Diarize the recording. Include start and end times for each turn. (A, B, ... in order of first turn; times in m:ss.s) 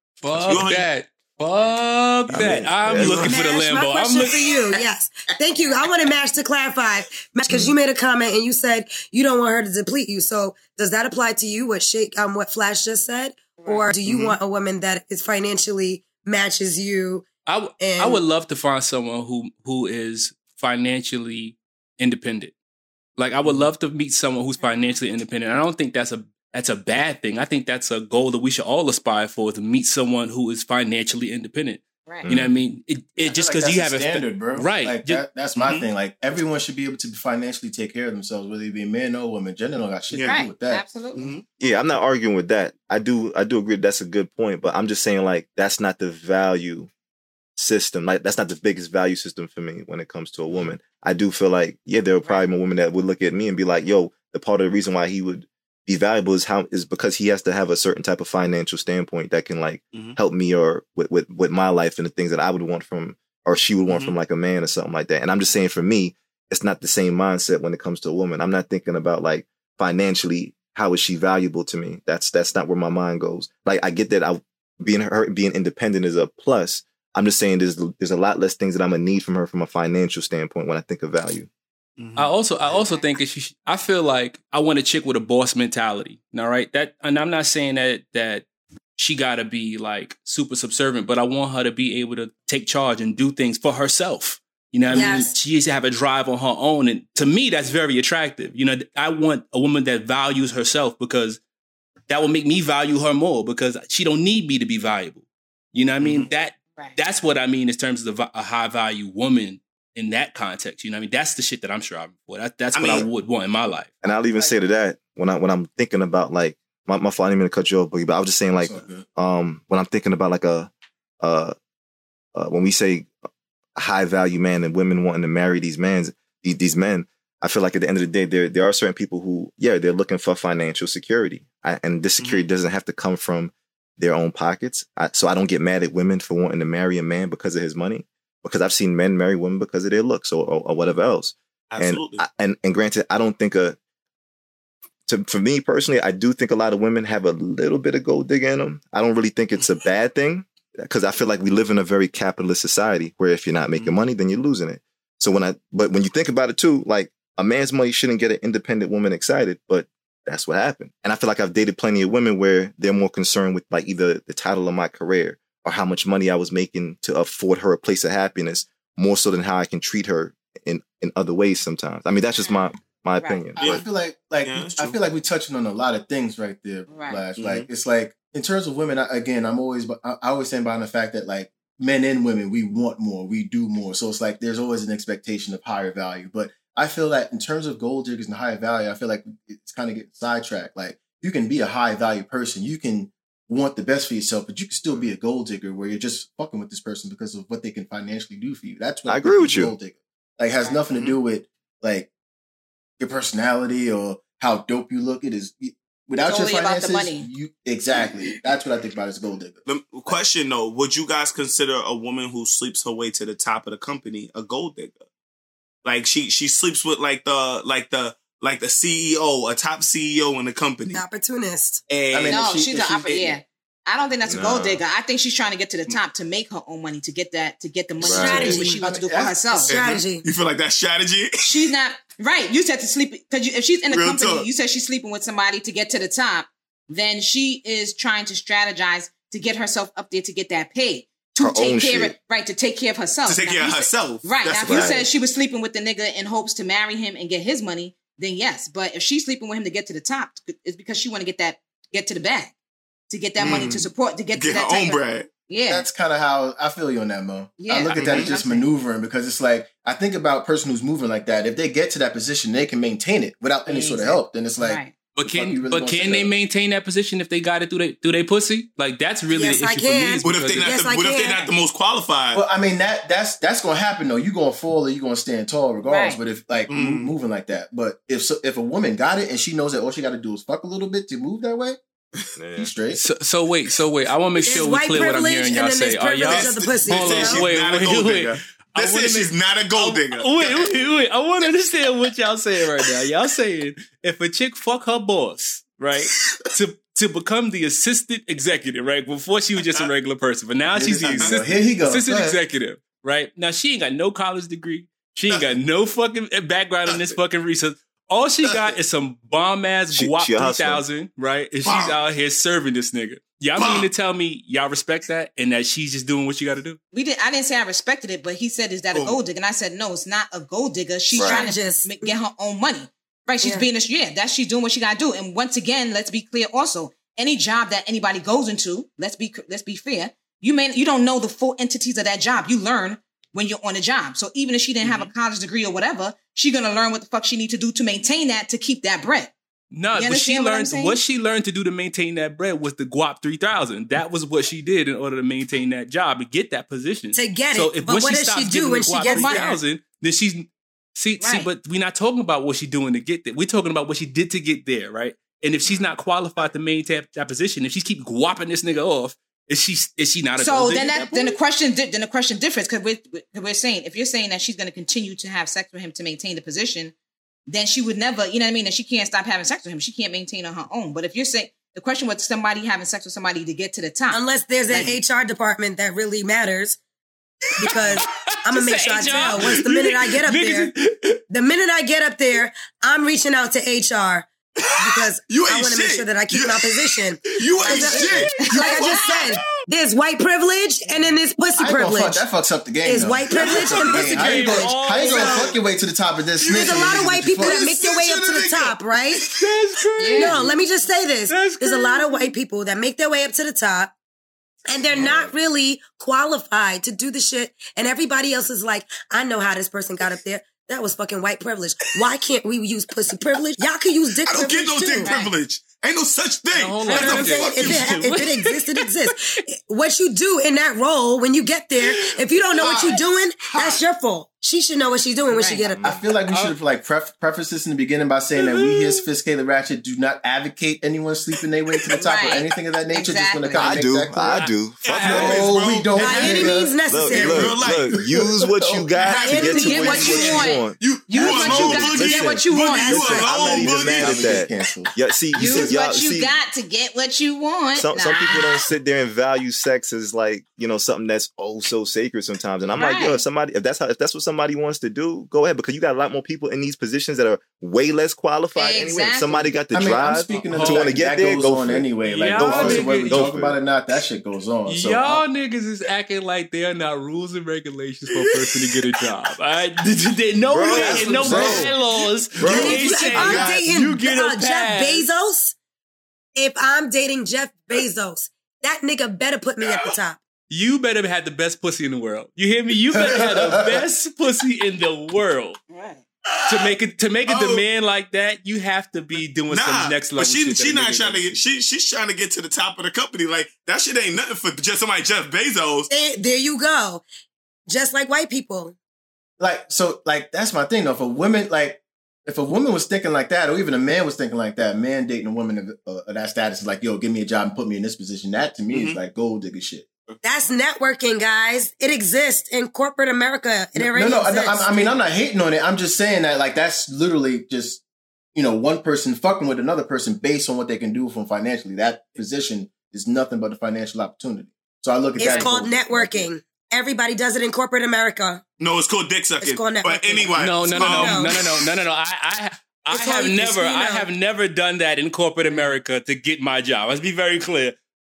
0:00.2-0:04.5 A
0:00.5-0:00.9 B
0:02.3-0:03.3 C
0:02.9-0:03.4 B
0:03.1-0:18.2 D
0:05.5-0:05.9 E
0:13.6-0:13.9 E
0:14.0-0:14.4 B
0:17.4-0:22.5 A
0:23.2-0:35.2 A
0:24.6-0:25.0 E
0:32.2-0:32.5 C
0:33.2-0:40.8 F
0:35.6-0:35.9 B
0:40.1-0:40.4 B
0:40.2-0:41.3 E
0:41.1-0:41.4 B
0:41.6-0:46.9 C
0:47.6-1:21.5 C
0:52.2-0:52.5 E
1:03.9-1:04.1 B
1:22.0-1:22.3 B
1:22.2-1:41.4 A
1:22.7-1:23.2 E
1:34.9-1:35.3 D
1:34.9-1:35.3 E
1:42.1-1:53.9 A
1:46.0-1:46.3 B
1:52.7-1:53.1 B
1:54.0-2:01.5 C
1:54.3-1:54.6 E
1:58.6-1:59.0 F
2:02.3-2:03.1 C
2:03.8-2:23.8 C
2:12.2-2:12.5 B
2:21.7-2:22.2 B
2:25.1-2:53.8 C
2:33.8-2:34.0 B
2:52.4-2:52.6 E
2:53.2-2:53.5 E
2:53.6-2:53.8 B
2:53.6-3:22.1 F
2:54.4-2:55.0 B
2:56.9-2:57.2 E
2:57.4-2:57.7 B
3:19.1-3:19.7 C
3:20.9-3:21.2 B
3:23.0-3:30.2 F
3:26.2-3:27.3 E
3:27.9-3:28.3 E
3:29.6-3:35.0 B
3:35.8-3:41.0 B
3:40.9-3:41.8 D
3:41.9-3:42.4 B
3:42.1-3:43.1 F
3:42.3-3:49.7 E
3:43.1-3:43.4 B
3:44.2-3:44.8 C
3:48.0-3:48.6 C
3:48.0-3:49.6 F
3:48.1-3:48.8 D
3:49.6-3:50.2 D
3:49.7-3:51.4 B
3:51.4-4:12.5 E
3:53.9-3:54.5 B
4:01.4-4:02.1 C
4:03.2-4:05.1 B
4:04.6-4:05.0 C
4:13.1-4:15.8 E
4:13.4-4:15.3 B
4:15.7-4:26.3 F
4:17.6-4:18.7 E
4:17.9-4:18.3 B
4:23.6-4:25.0 E
4:25.1-4:30.7 A
4:29.3-4:31.5 D
4:30.2-4:32.4 B
4:32.3-4:41.8 F
4:35.8-4:36.2 E
4:36.7-4:37.1 B
4:42.4-4:42.7 C
4:42.6-4:43.0 F
4:42.9-5:16.8 A
4:44.4-4:47.5 D
4:46.2-4:50.7 B
5:00.7-5:02.4 F
5:06.8-5:07.2 B
5:09.9-5:10.8 C
5:11.6-5:12.0 B
5:13.6-5:13.9 B
5:16.9-5:39.3 E
5:18.9-5:19.2 B
5:21.1-5:21.5 C
5:21.2-5:22.1 D
5:34.8-5:35.1 B
5:39.7-6:01.4 A
5:39.9-5:41.0 E
5:47.1-5:49.6 D
5:49.1-5:49.6 E
5:51.2-5:51.5 E
5:55.6-5:56.0 C
6:00.4-6:06.9 E
6:07.5-6:14.2 E
6:14.1-6:16.8 D
6:17.6-6:20.7 D
6:17.7-6:21.2 A
6:21.3-6:32.2 D
6:24.6-6:29.5 B
6:27.7-6:28.5 F
6:31.6-6:37.6 F
6:32.8-6:35.5 D
6:33.4-6:35.6 A
6:36.4-6:38.8 B
6:36.4-6:39.2 D
6:39.3-6:40.5 A
6:40.0-6:40.4 E
6:40.1-6:43.9 D
6:41.3-6:42.3 A
6:44.7-6:55.1 D
6:44.9-6:45.3 C
6:54.2-6:57.9 B
6:55.0-6:55.3 E
6:56.5-6:58.7 A
6:56.9-7:06.0 D
7:02.6-7:03.8 B
7:05.3-7:05.6 E
7:05.6-7:06.0 C
7:05.8-7:14.4 F
7:06.3-7:06.5 A
7:08.4-7:09.0 A
7:12.1-7:13.8 E
7:13.5-7:15.4 C
7:14.2-7:15.5 A
7:14.8-7:16.6 B
7:15.0-7:18.9 F
7:16.0-7:17.5 D
7:16.9-7:26.4 C
7:17.1-7:18.0 B
7:19.0-7:23.0 E
7:19.1-7:20.6 D
7:20.0-7:24.6 B
7:22.8-7:23.3 D
7:23.1-7:25.7 F
7:25.3-7:28.7 E
7:27.7-7:43.6 C
7:32.8-7:33.2 E
7:38.5-7:39.5 E
7:39.7-7:45.2 F
7:40.3-7:40.9 A
7:42.0-7:43.3 A
7:44.6-7:55.1 A
7:48.1-7:49.4 B
7:50.5-7:51.6 C
7:50.7-7:51.8 F
7:50.8-7:53.6 B
7:52.3-7:53.2 C
7:52.5-7:55.6 D
7:56.4-8:00.2 D
7:59.6-8:00.0 B
8:00.5-8:05.6 A
8:02.9-8:03.8 F
8:05.7-8:06.0 E
8:06.3-8:07.6 B
8:06.5-8:11.4 A
8:09.5-8:15.9 B
8:15.9-8:17.0 D
8:17.7-8:18.7 D
8:19.4-8:29.9 F
8:28.7-8:29.0 B
8:30.2-8:34.9 D
8:33.8-8:37.8 F
8:38.3-8:46.3 F
8:45.2-8:48.4 D
8:48.6-8:51.5 B
8:49.4-8:51.5 D
8:50.4-8:57.8 A
8:52.9-8:54.1 D